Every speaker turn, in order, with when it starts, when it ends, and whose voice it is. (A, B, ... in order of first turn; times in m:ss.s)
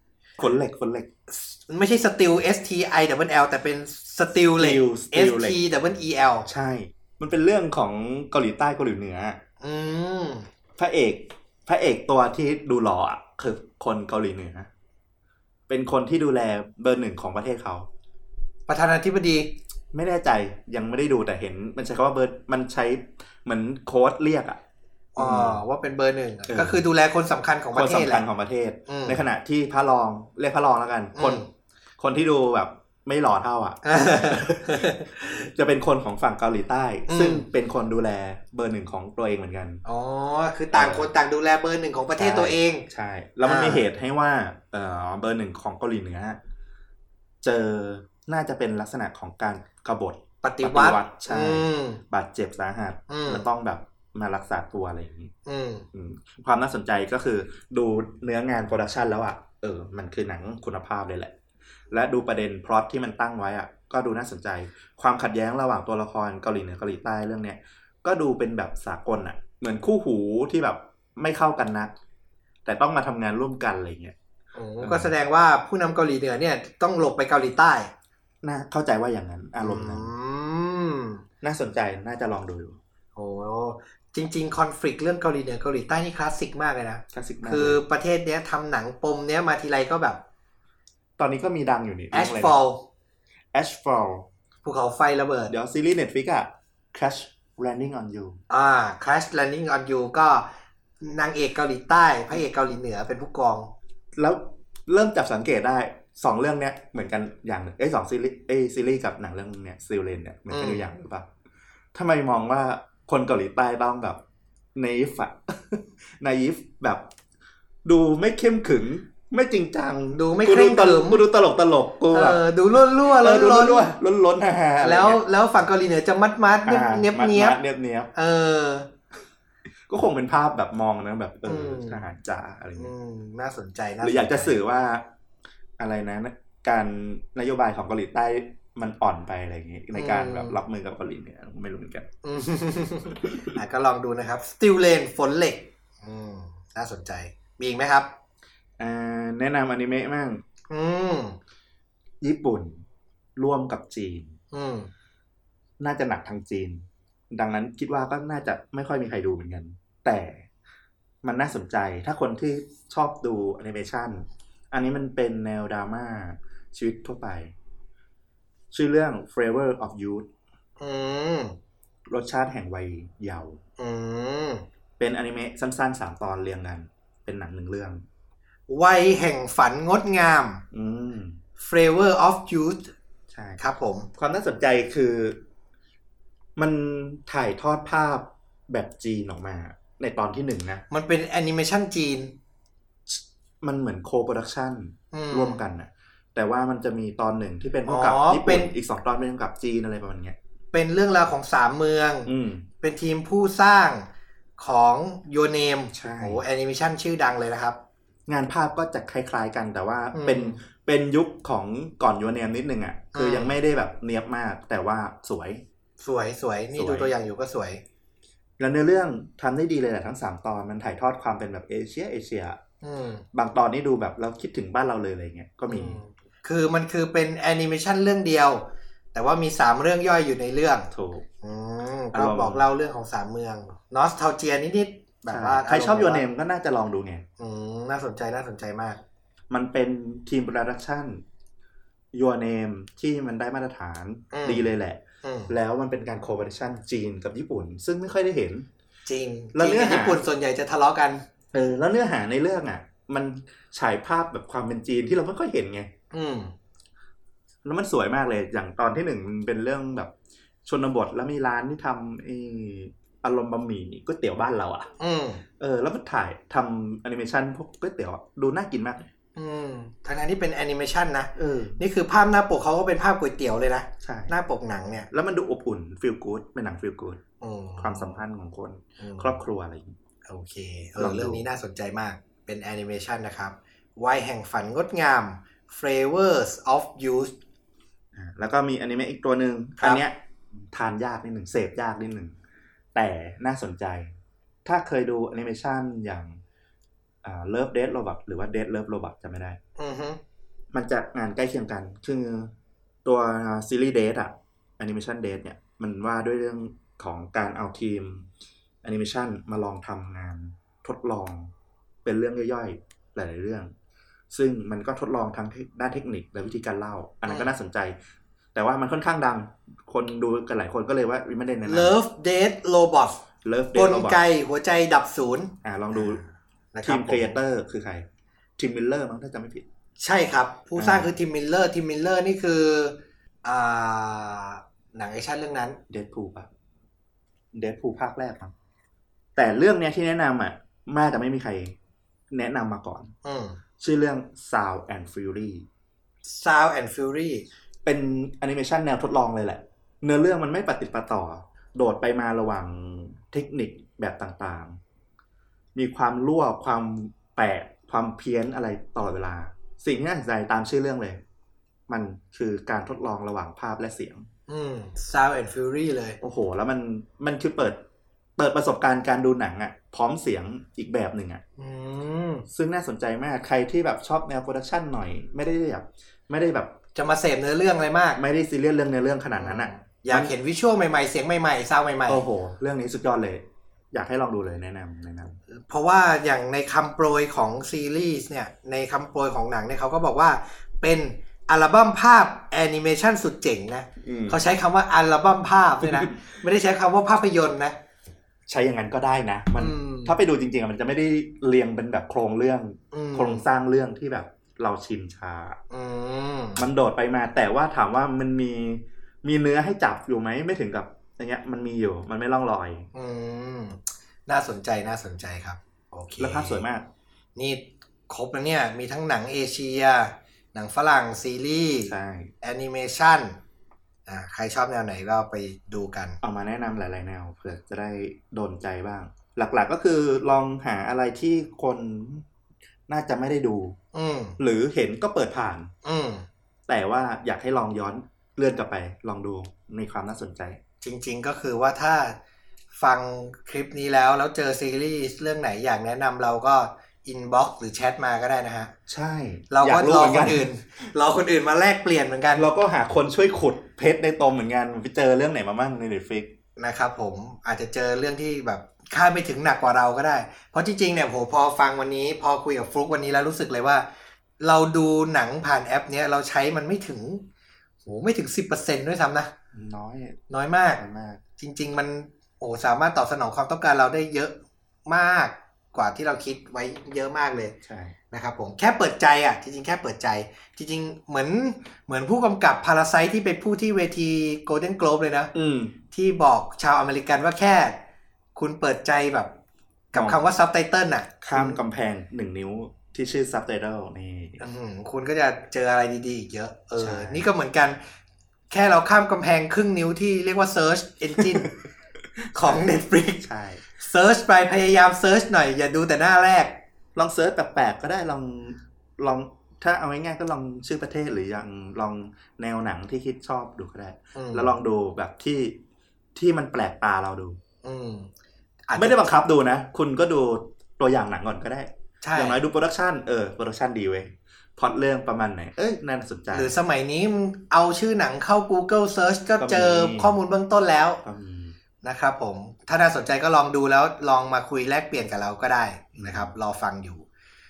0:00.4-0:01.1 A
0:01.3-0:06.5 B
0:04.6-0:05.6 A
0:06.5-0:09.4 A
0:09.6-0:10.5 B
0:10.8-0:14.7 A
0:15.7-0:17.9 A
0:18.7-0:19.5 B
0:19.9-0:24.6 A
0:25.2-0:28.2 B
0:25.2-0:25.6 A
0:26.5-0:26.8 A
0:27.7-0:31.4 A
0:28.9-0:29.2 B
0:31.2-0:31.5 B
0:32.0-0:39.8 A
0:33.8-0:35.2 B
0:37.1-0:37.4 B
0:39.8-0:42.9 B
0:40.7-0:41.1 A
0:42.2-0:46.4 A
0:43.4-0:43.9 B
0:47.4-0:55.3 A
0:50.4-0:52.0 B
0:53.1-0:53.5 B
0:55.5-0:55.9 B
0:55.9-1:01.4 A
1:01.9-1:11.9 A
1:12.6-1:14.2 A
1:14.6-1:17.9 B
1:14.8-1:15.1 A
1:18.4-1:20.1 A
1:19.6-1:21.2 B
1:21.4-1:22.8 A
1:23.2-1:30.2 B
1:27.1-1:27.8 A
1:31.2-1:32.6 A
1:32.1-1:32.9 B
1:33.5-1:34.3 A
1:34.6-1:35.5 B
1:35.5-1:38.4 A
1:38.5-1:40.5 B
1:41.0-1:43.7 B
1:44.2-1:51.3 A
1:50.5-1:50.9 B
1:51.9-1:54.2 A
1:54.8-1:57.0 A
1:57.8-2:05.2 A
2:00.1-2:01.2 B
2:02.1-2:04.0 B
2:04.8-2:07.6 B
2:06.7-2:08.1 A
2:08.1-2:08.9 B
2:09.9-2:12.9 A
2:11.5-2:12.0 B
2:12.8-2:14.6 B
2:14.0-2:15.1 A
2:15.8-2:22.1 A
2:19.9-2:20.6 B
2:22.2-2:28.1 B
2:23.1-2:23.5 A
2:28.8-2:30.4 A
2:30.7-2:31.4 B
2:32.2-2:32.8 A
2:33.4-2:34.4 A
2:34.5-2:34.9 B
2:35.8-2:40.5 A
2:41.2-2:47.5 A
2:48.7-2:50.3 A
2:50.8-2:51.6 B
2:52.1-2:53.6 A
2:53.8-2:54.6 B
2:55.0-2:58.0 A
2:58.7-3:00.6 B
3:00.7-3:01.4 A
3:01.6-3:02.9 B
3:03.3-3:03.6 A
3:03.6-3:04.1 B
3:04.2-3:05.4 A
3:06.6-3:10.8 A
3:10.9-3:12.4 B
3:13.1-3:20.4 A
3:15.1-3:15.6 B
3:17.9-3:18.7 B
3:20.7-3:27.8 B
3:22.3-3:22.7 A
3:25.9-3:26.4 A
3:28.3-3:35.6 A
3:30.1-3:30.6 B
3:33.1-3:33.6 B
3:36.0-3:37.8 B
3:36.8-3:37.1 A
3:38.6-3:42.6 A
3:42.8-3:43.2 B
3:43.3-3:46.0 A
3:45.7-3:48.6 B
3:49.1-3:50.9 B
3:50.9-3:51.3 A
3:51.4-3:56.2 B
3:52.1-3:52.6 A
3:55.3-3:57.2 A
3:57.4-3:59.0 B
3:59.5-4:01.2 A
4:02.1-4:08.7 A
4:04.3-4:04.7 B
4:05.2-4:05.5 B
4:09.1-4:11.2 B
4:09.6-4:10.2 A
4:11.5-4:15.9 A
4:16.1-4:16.5 B
4:17.6-4:20.1 A
4:20.7-4:24.9 A
4:25.0-4:25.4 B
4:25.6-4:29.0 A
4:29.4-4:35.1 B
4:31.4-4:31.8 A
4:34.0-4:34.3 A
4:35.1-4:37.2 A
4:37.4-4:38.2 B
4:37.8-4:40.0 A
4:39.0-4:39.4 B
4:40.3-4:47.4 B
4:41.0-4:41.4 A
4:48.2-4:52.4 A
4:53.0-4:54.1 A
4:54.6-4:56.4 A
4:57.2-4:59.6 A
4:59.8-5:00.2 B
5:00.7-5:02.5 A
5:03.0-5:08.3 A
5:08.8-5:11.5 A
5:12.0-5:13.7 A
5:14.3-5:18.0 A
5:17.3-5:17.5 B
5:18.6-5:22.0 A
5:21.6-5:23.2 B
5:23.4-5:24.2 A
5:23.7-5:27.4 B
5:25.6-5:26.2 A
5:26.8-5:28.1 A
5:28.6-5:29.6 A
5:30.0-5:35.8 B
5:30.8-5:31.1 A
5:35.9-5:36.5 A
5:37.5-5:38.5 A
5:39.4-5:41.8 A
5:42.3-5:43.1 A
5:43.2-5:43.6 B
5:43.8-5:45.7 A
5:46.3-5:47.4 B
5:47.9-5:54.8 A
5:55.8-6:01.2 A
6:01.9-6:04.3 A
6:04.5-6:06.2 B
6:06.2-6:07.8 A
6:08.4-6:11.4 A
6:11.6-6:12.5 B
6:12.5-6:16.8 A
6:17.0-6:18.2 B
6:18.2-6:20.3 A
6:19.4-6:22.2 B
6:22.1-6:25.4 A
6:25.5-6:37.8 B
6:34.0-6:34.4 A
6:35.8-6:36.1 A
6:38.5-6:45.6 A
6:39.6-6:40.2 B
6:42.9-6:43.4 B
6:45.7-6:46.6 B
6:46.6-6:52.9 A
6:52.9-6:56.6 B
6:56.2-6:56.9 A
6:57.4-7:03.4 B
7:01.9-7:02.3 A
7:04.1-7:06.2 B
7:06.2-7:12.3 A
7:12.9-7:13.8 A
7:13.9-7:14.4 B
7:14.4-7:15.7 A
7:15.8-7:16.3 B
7:16.7-7:20.6 A
7:20.8-7:22.2 B
7:22.8-7:28.7 B
7:28.9-7:30.5 A
7:29.5-7:32.5 B
7:32.4-7:36.3 A
7:36.6-7:43.9 B
7:44.4-7:47.3 B
7:47.8-7:49.3 B
7:49.5-7:50.2 A
7:50.3-7:50.8 B
7:50.8-7:51.2 A
7:51.4-7:57.5 B
7:57.3-7:58.0 A
7:58.1-8:05.3 B
8:05.3-8:05.8 A
8:05.9-8:07.8 B
8:08.4-8:09.3 B
8:09.9-8:11.6 B
8:09.9-8:10.2 A
8:11.2-8:14.4 A
8:14.4-8:17.8 B
8:16.8-8:17.3 A
8:18.5-8:21.5 B
8:22.3-8:23.3 B
8:23.2-8:23.6 A
8:23.8-8:26.6 B
8:27.0-8:35.6 A
8:34.2-8:34.5 B
8:36.2-8:37.4 A
8:37.6-8:38.1 B
8:38.7-8:39.2 B
8:38.8-8:46.5 A
8:42.0-8:42.4 B
8:46.3-8:51.0 B
8:49.4-8:50.2 A
8:51.0-8:51.6 A
8:51.8-8:57.0 B
8:56.0-8:56.3 A